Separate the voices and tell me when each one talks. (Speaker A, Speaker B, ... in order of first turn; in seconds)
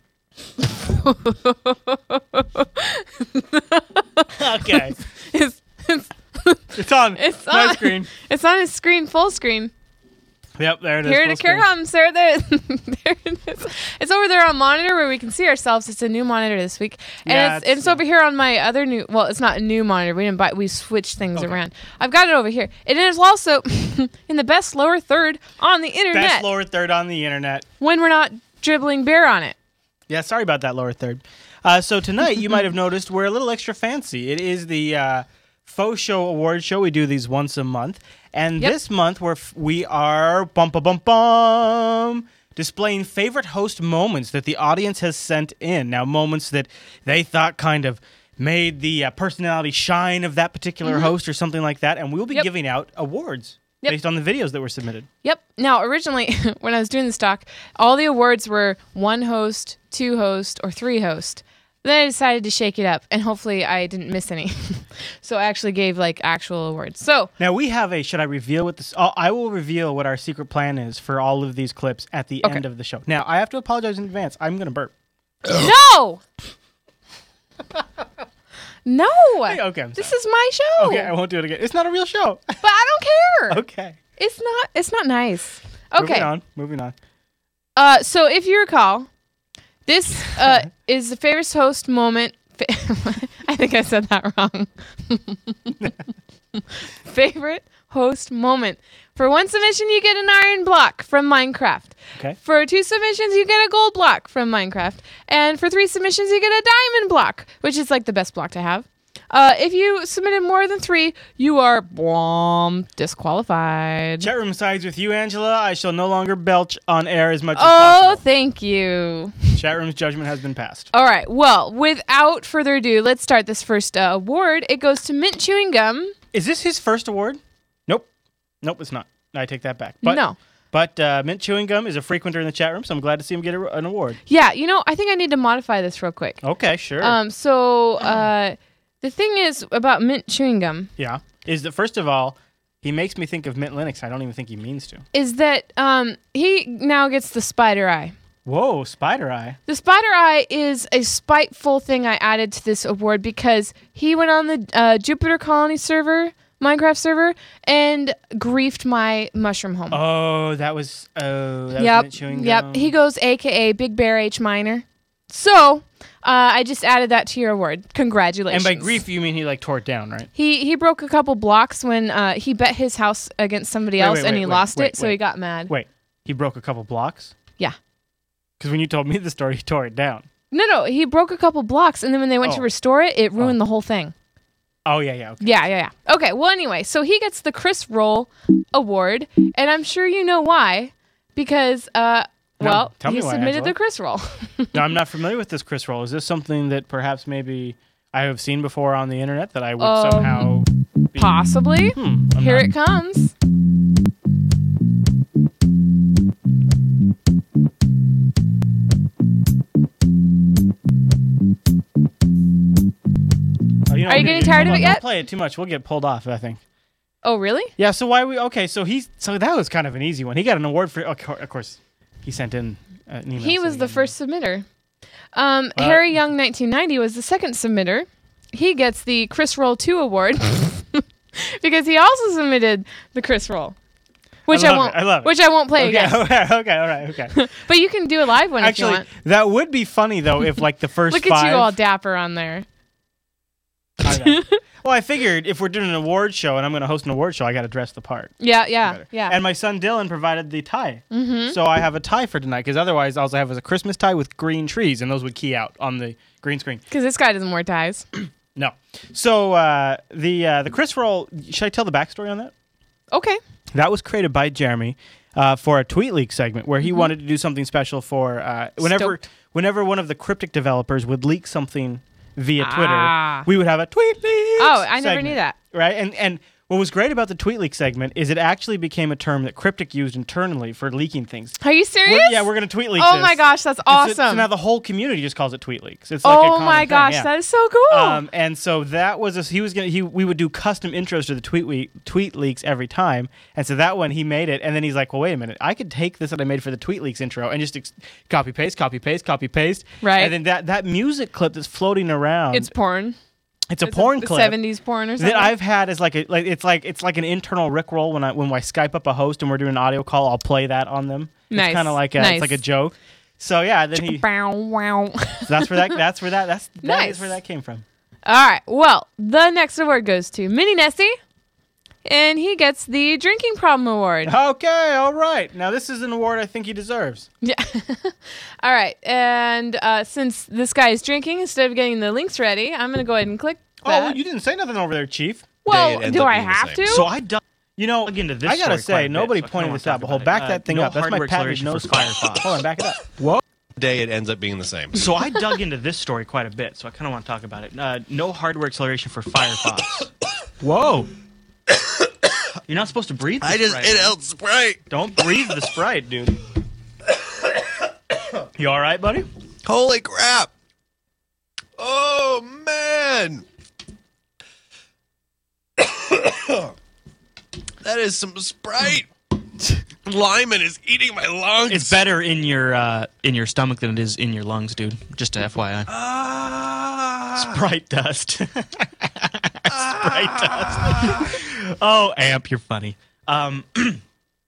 Speaker A: 0.8-9.7, 11.0-26.6, 27.8-29.6, 50.9-51.1, 55.2-67.3, 75.5-76.2, 78.8-81.1, 82.6-83.6, 84.2-86.3, 87.8-89.1, 89.9-95.8, 96.5-114.3, 117.5-119.5, 120.9-126.1, 130.0-130.4, 134.3-136.4, 137.0-140.9, 145.1-148.1, 149.7-160.0, 161.8-169.0, 170.3-175.7, 180.5-184.1, 185.4-194.8, 199.8-200.5, 201.2-203.3, 214.1-215.1, 217.2-217.7, 223.4-224.7, 225.3-233.8, 234.5-236.3, 237.4-239.1, 241.1-242.7, 244.1-244.6, 248.4-249.4, 251.1-251.6, 256.9-258.1, 263.1-263.4, 266.8-267.1, 268.8-269.2, 272.6-273.5, 274.6-275.6, 281.6-284.5, 286.2-288.2, 300.0-300.4, 302.5-303.2, 303.8-305.6, 311.5-312.6, 314.0-316.0, 316.8-317.4, 318.2-321.2, 322.1-324.4, 327.4-334.2, 335.6-337.1
Speaker B: 4.3-5.0, 6.8-8.1, 10.6-11.7, 17.2-18.0, 21.4-21.6, 26.1-27.7, 30.1-55.1, 67.4-74.9, 79.5-80.1, 80.8-82.6, 83.5-84.0, 86.0-87.0, 114.2-118.2, 119.5-120.9, 126.3-128.1, 128.6-134.2, 136.4-137.2, 141.0-145.0, 148.4-149.6, 159.9-162.9, 168.5-170.3, 173.9-177.3, 178.6-180.3, 184.8-185.6, 192.6-193.8, 194.7-201.3, 201.9-202.7, 213.9-216.6, 217.8-224.1, 225.8-226.2, 234.5-237.4, 238.6-241.8, 244.0-256.8, 258.6-262.5, 263.7-287.3, 287.9-302.7, 303.7-304.6, 305.2-314.3, 315.5-317.8, 324.2-327.3, 333.8-335.5, 336.9-343.2, 344.9-350.1, 352.7-354.2, 354.9-356.4, 358.6-359.3, 377.4-382.7, 383.3-383.6
Speaker C: 335.7-336.9, 343.8-345.1, 353.4-355.6, 359.6-360.5, 361.8-363.4, 366.1-366.7, 367.8-369.1, 370.1-372.1, 375.9-377.6, 379.7-381.3
Speaker D: 338.0-342.3, 345.3-349.6, 350.6-351.1, 353.6-354.0, 371.7-375.9, 381.8-384.0